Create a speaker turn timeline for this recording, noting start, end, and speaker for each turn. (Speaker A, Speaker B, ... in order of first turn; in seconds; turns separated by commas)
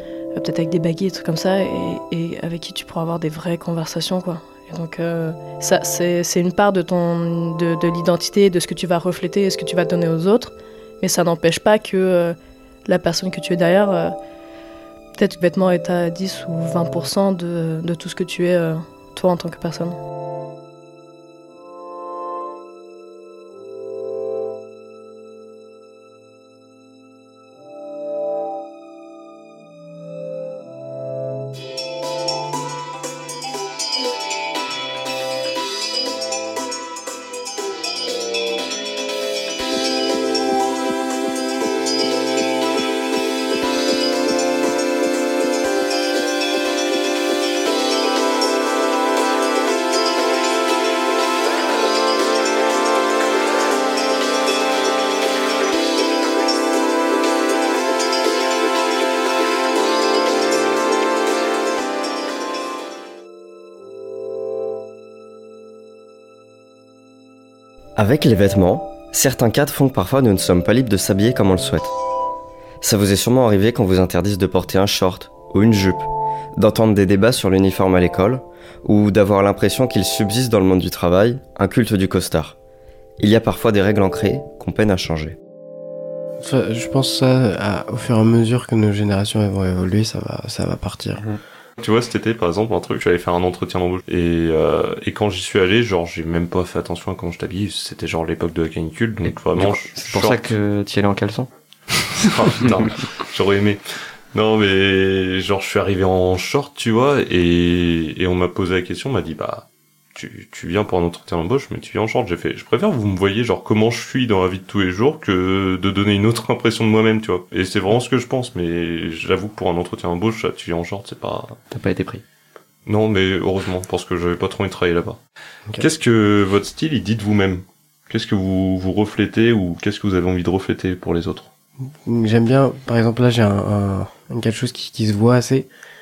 Speaker A: 0.3-14.1, Speaker A: 15.2-20.0, Speaker B: 68.0-71.9, Speaker B: 72.8-82.6, Speaker B: 83.2-85.4, Speaker C: 86.4-91.2, Speaker D: 91.8-100.5, Speaker E: 99.5-101.5, Speaker D: 102.2-103.8, Speaker D: 104.3-121.6, Speaker E: 121.7-122.2, Speaker D: 122.9-125.2, Speaker D: 125.8-131.5, Speaker C: 132.0-135.7